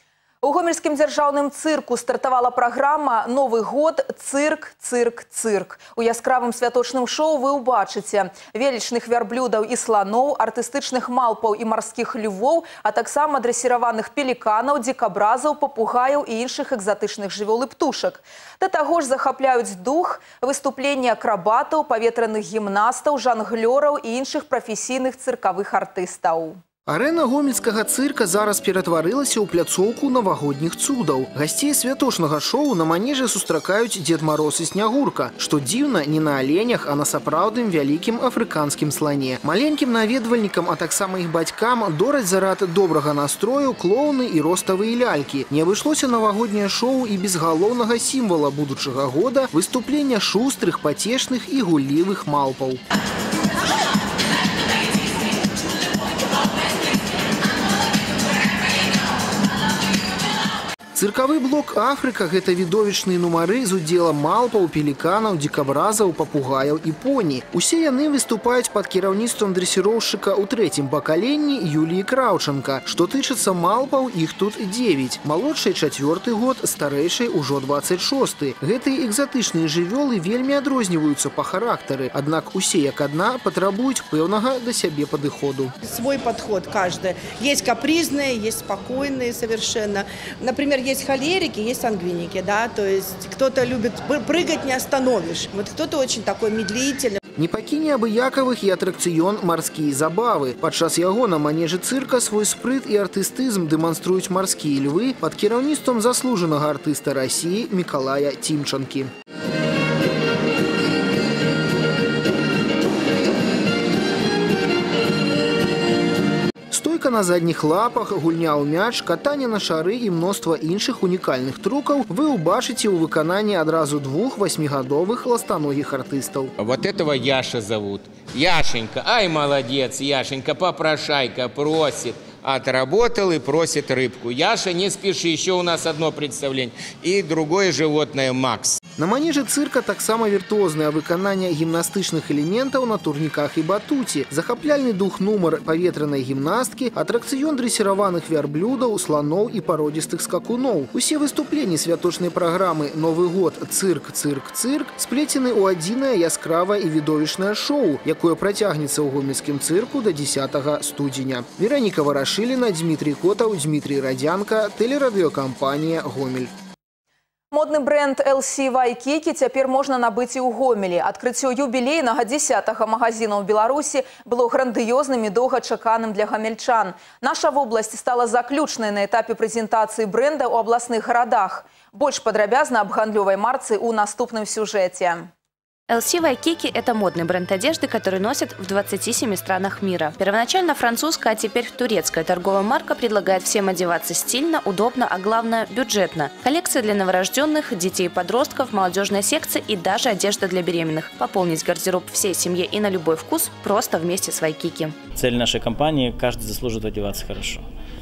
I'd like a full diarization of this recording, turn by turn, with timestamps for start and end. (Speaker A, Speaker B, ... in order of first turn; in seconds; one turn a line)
Speaker A: 0.4-26.6
Speaker B: 26.9-52.8
Speaker B: 61.0-85.7
Speaker C: 85.8-97.2
Speaker B: 97.4-109.1
Speaker B: 116.7-126.8
Speaker D: 126.7-129.7
Speaker B: 129.2-129.8
Speaker D: 130.4-136.5
Speaker D: 137.1-138.7
Speaker B: 139.0-166.5
Speaker A: 167.5-185.3
Speaker E: 185.9-205.0
Speaker F: 205.1-207.7